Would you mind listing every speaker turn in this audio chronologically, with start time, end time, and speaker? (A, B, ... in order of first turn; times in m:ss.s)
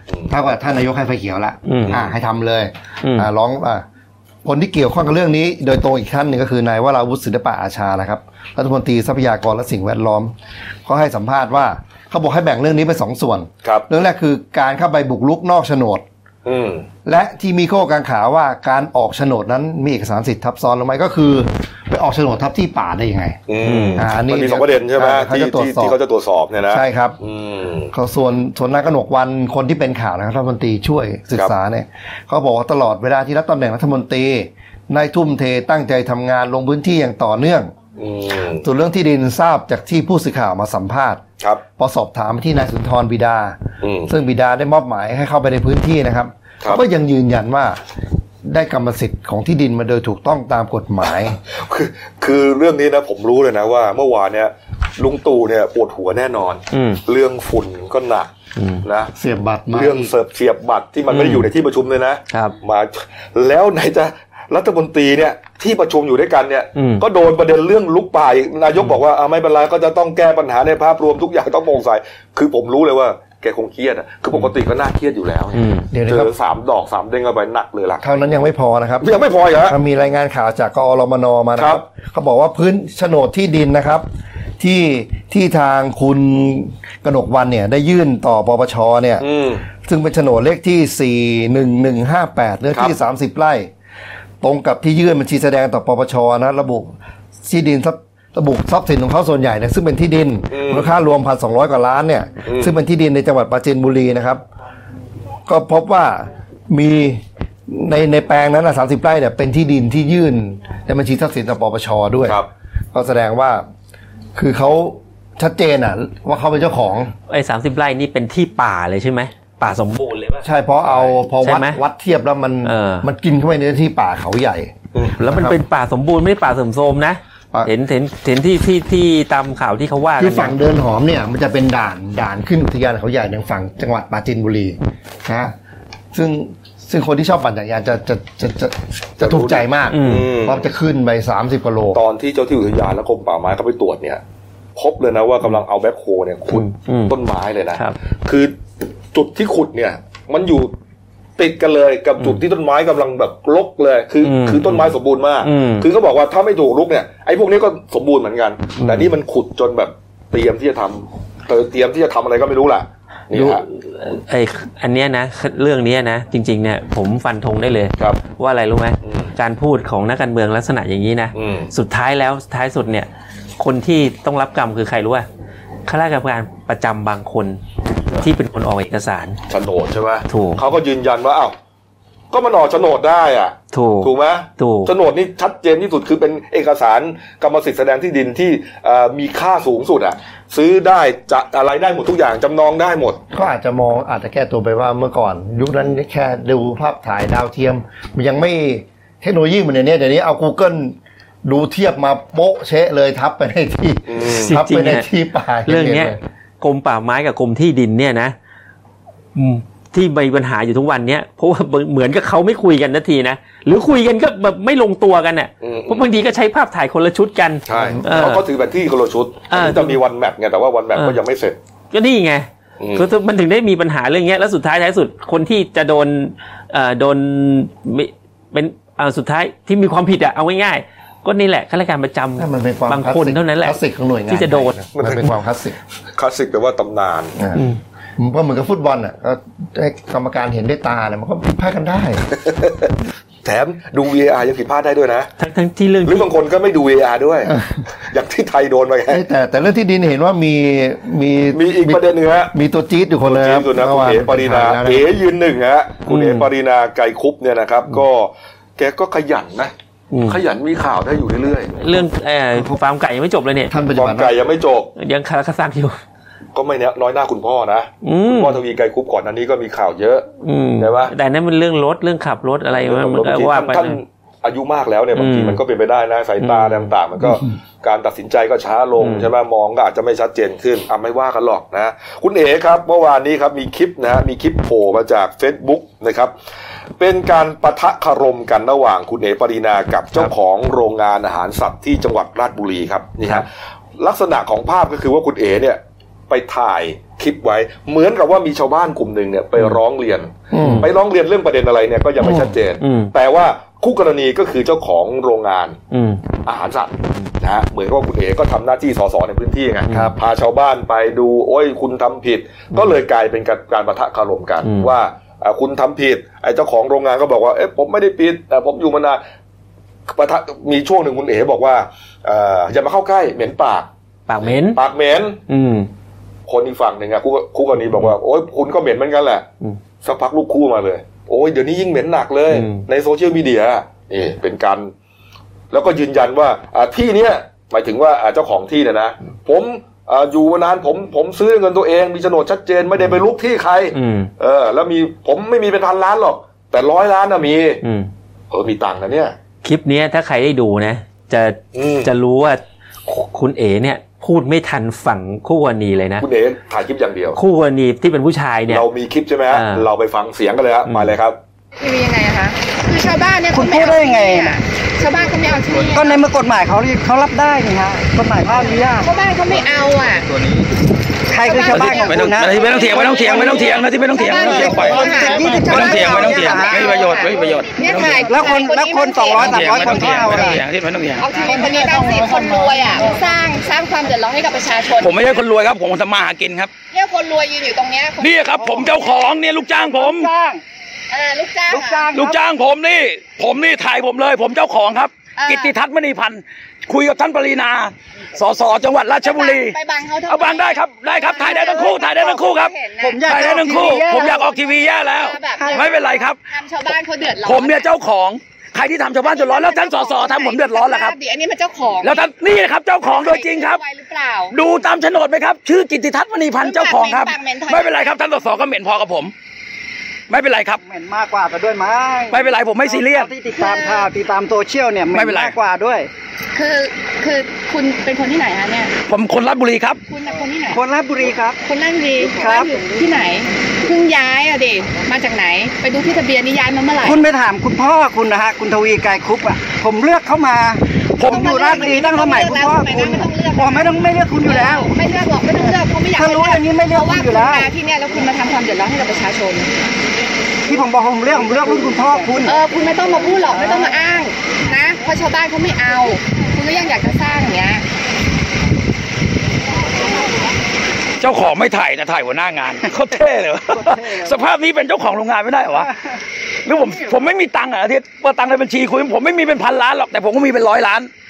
0:00.3-0:03.8 A
0:01.6-0:02.0 B
0:01.8-0:02.1 C
0:03.0-0:03.3 B
0:04.4-0:10.3 A
0:10.9-0:16.0 A
0:16.4-0:16.9 C
0:17.0-0:23.4 A
0:23.5-0:27.9 C
0:23.6-0:24.1 B
0:24.0-0:26.0 A
0:26.7-0:27.2 A
0:27.9-0:37.7 A
0:38.0-0:38.6 C
0:38.6-0:41.2 A
0:41.8-0:47.8 A
0:43.8-0:44.1 C
0:48.4-0:51.4 A
0:51.5-0:58.3 C
0:56.7-0:57.0 B
0:58.6-0:58.8 B
0:58.8-0:59.1 C
0:59.1-1:00.1 A
0:59.7-1:18.0 C
1:01.1-1:01.5 B
1:02.3-1:02.6 B
1:06.7-1:07.0 B
1:15.5-1:15.9 B
1:15.9-1:16.3 A
1:18.0-1:19.1 A
1:19.0-1:19.8 C
1:19.6-1:24.0 A
1:21.6-1:21.8 C
1:24.6-1:29.2 A
1:29.2-1:29.6 C
1:29.8-1:33.7 A
1:34.4-1:36.9 A
1:37.4-1:44.4 A
1:40.5-1:40.9 C
1:42.4-1:42.7 C
1:45.5-1:52.4 A
1:52.9-1:53.6 A
1:54.3-1:57.1 A
1:57.3-2:00.4 B
2:00.4-2:05.6 A
2:00.8-2:01.2 C
2:01.4-2:01.8 B
2:02.6-2:03.1 B
2:05.2-2:10.6 B
2:10.2-2:15.5 A
2:16.1-2:22.0 A
2:19.2-2:20.6 C
2:19.9-2:20.3 B
2:21.9-2:24.2 C
2:24.8-2:28.6 C
2:26.5-2:27.1 B
2:29.1-2:30.7 C
2:31.4-2:43.6 C
2:34.2-2:35.9 B
2:38.8-2:39.1 B
2:43.3-2:53.1 B
2:49.0-2:49.3 C
2:51.3-2:51.7 C
2:53.6-2:55.3 B
2:55.9-2:57.6 B
2:58.2-2:59.4 B
2:59.5-3:01.5 C
3:00.3-3:00.6 B
3:02.3-3:13.2 C
3:03.7-3:04.9 B
3:13.3-3:26.2 A
3:24.1-3:24.6 C
3:24.3-3:25.1 B
3:25.6-3:28.3 B
3:29.3-3:38.4 B
3:35.6-3:36.1 C
3:37.6-3:41.6 C
3:39.5-3:40.0 B
3:40.9-3:41.2 B
3:41.9-3:54.7 B
3:42.8-3:43.1 C
3:52.4-3:55.8 A
3:54.9-3:55.3 C
3:56.2-3:57.4 C
3:57.4-3:57.6 A
3:58.2-4:02.2 A
4:02.4-4:02.9 C
4:03.4-4:05.3 C
4:05.4-4:06.3 B
4:06.0-4:09.2 C
4:09.1-4:15.1 A
4:11.5-4:12.5 C
4:13.2-4:19.7 C
4:16.1-4:16.5 B
4:20.1-4:20.4 B
4:20.2-4:21.8 C
4:21.8-4:23.7 B
4:23.7-4:24.3 A
4:23.9-4:24.9 C
4:25.0-4:26.0 B
4:26.6-4:30.3 C
4:28.0-4:28.6 B
4:30.4-4:34.0 B
4:30.8-4:31.1 C
4:32.7-4:46.3 C
4:35.1-4:35.6 B
4:36.4-4:36.9 B
4:39.0-4:39.3 B
4:47.0-4:53.5 C
4:54.0-5:05.8 C
5:00.5-5:00.9 A
5:00.6-5:00.9 B
5:02.2-5:02.6 A
5:02.8-5:03.1 B
5:05.9-5:06.2 B
5:06.4-5:19.2 C
5:09.9-5:10.2 B
5:09.9-5:10.1 A
5:14.6-5:14.9 B
5:20.1-5:23.9 C
5:24.3-5:24.8 B
5:24.4-5:25.4 C
5:25.5-5:25.9 B
5:26.5-5:29.5 C
5:30.0-5:34.9 C
5:32.5-5:32.8 B
5:35.7-5:47.8 C
5:43.9-5:44.3 B
5:47.8-5:48.1 B
5:48.5-5:49.3 C
5:49.6-5:56.2 B
5:51.7-5:52.1 C
5:56.2-5:57.4 C
5:57.4-5:58.9 B
5:58.7-6:01.4 C
5:59.5-5:59.9 B
6:00.9-6:01.2 B
6:01.8-6:06.2 D
6:03.5-6:04.6 E
6:05.9-6:09.1 E
6:09.0-6:10.3 D
6:11.3-6:17.2 E
6:11.4-6:20.4 D
6:11.5-6:18.3 F
6:17.9-6:20.6 E
6:19.3-6:21.3 F
6:21.2-6:25.1 D
6:21.4-6:23.1 E
6:25.0-6:26.7 F
6:26.9-6:29.1 D
6:28.2-6:30.3 F
6:28.6-6:29.0 E
6:29.7-6:30.6 E
6:31.1-6:32.1 D
6:31.7-6:32.4 E
6:32.1-6:39.8 F
6:35.4-6:35.7 D
6:39.2-6:43.3 D
6:40.3-6:46.4 F
6:43.0-6:44.4 E
6:44.2-6:47.8 D
6:45.6-6:45.9 E
6:47.4-6:51.2 F
6:49.2-6:52.3 D
6:52.0-6:53.8 F
6:53.0-6:54.6 D
6:54.5-6:59.3 F
6:56.6-6:58.1 D
7:00.3-7:00.8 F
7:00.8-7:06.1 E
7:02.3-7:03.4 F
7:03.5-7:04.1 D
7:05.1-7:05.6 F
7:06.5-7:08.9 D
7:09.1-7:10.0 F
7:10.1-7:10.8 D
7:10.7-7:11.6 E
7:11.6-7:17.2 D
7:12.3-7:12.9 E
7:17.0-7:24.9 E
7:21.2-7:21.8 F
7:21.2-7:29.7 D
7:25.6-7:27.7 E
7:30.7-7:32.6 E
7:32.4-7:37.8 D
7:33.4-7:33.9 E
7:41.2-7:45.9 F
7:43.7-7:44.4 E
7:46.6-7:51.1 F